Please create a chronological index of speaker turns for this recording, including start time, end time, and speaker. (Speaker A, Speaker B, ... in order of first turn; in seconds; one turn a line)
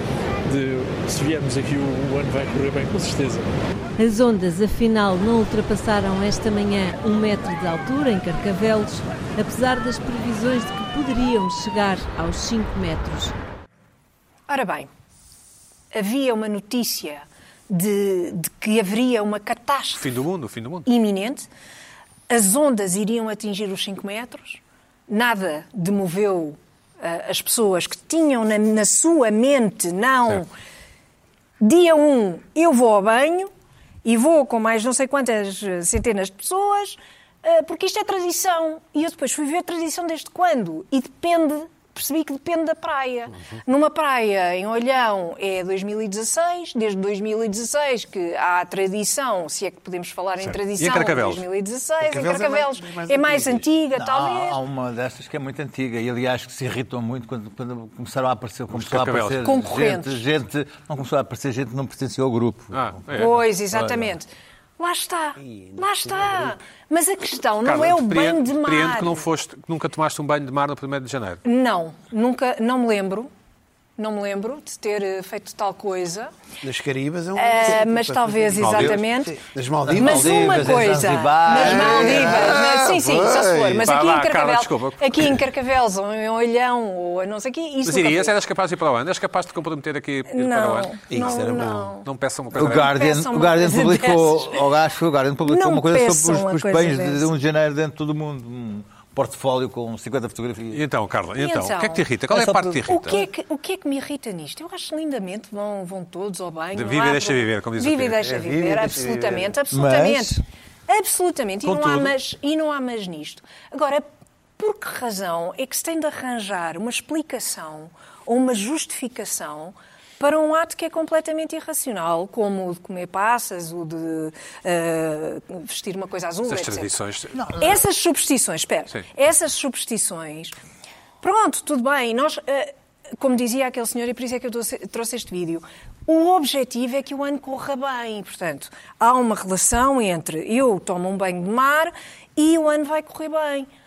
Speaker A: 0.4-3.5
Speaker B: 4.0-13.3
Speaker C: 14.5-14.9
Speaker C: 15.9-20.1
Speaker D: 19.9-20.9
Speaker C: 20.9-21.5
Speaker C: 22.3-30.5
Speaker C: 31.6-33.5
Speaker C: 34.0-54.6
Speaker D: 50.4-51.4
Speaker E: 52.0-53.7
Speaker F: 53.9-63.0
Speaker D: 58.7-59.5
Speaker C: 59.4-60.2
Speaker D: 62.7-63.4
Speaker C: 63.1-64.3
Speaker F: 63.7-64.1
Speaker C: 64.8-69.2
Speaker E: 65.4-66.5
Speaker D: 67.6-71.4
Speaker C: 71.4-73.3
Speaker C: 74.0-76.3
Speaker E: 76.6-80.8
Speaker C: 77.4-79.4
Speaker F: 79.8-82.6
Speaker C: 80.0-88.4
Speaker E: 81.5-83.9
Speaker D: 83.8-85.4
Speaker D: 87.8-91.5
Speaker C: 90.3-92.1
Speaker E: 91.1-91.9
Speaker D: 92.0-93.0
Speaker F: 92.5-100.8
Speaker C: 92.7-94.7
Speaker C: 95.5-97.3
Speaker D: 100.7-103.2
Speaker C: 101.4-102.0
Speaker F: 102.3-102.9
Speaker C: 102.9-114.1
Speaker D: 106.7-108.3
Speaker E: 108.2-109.5
Speaker F: 109.7-110.4
Speaker D: 111.6-112.1
Speaker C: 114.6-127.0
Speaker D: 126.5-127.6
Speaker C: 127.5-130.5
Speaker C: 131.2-143.7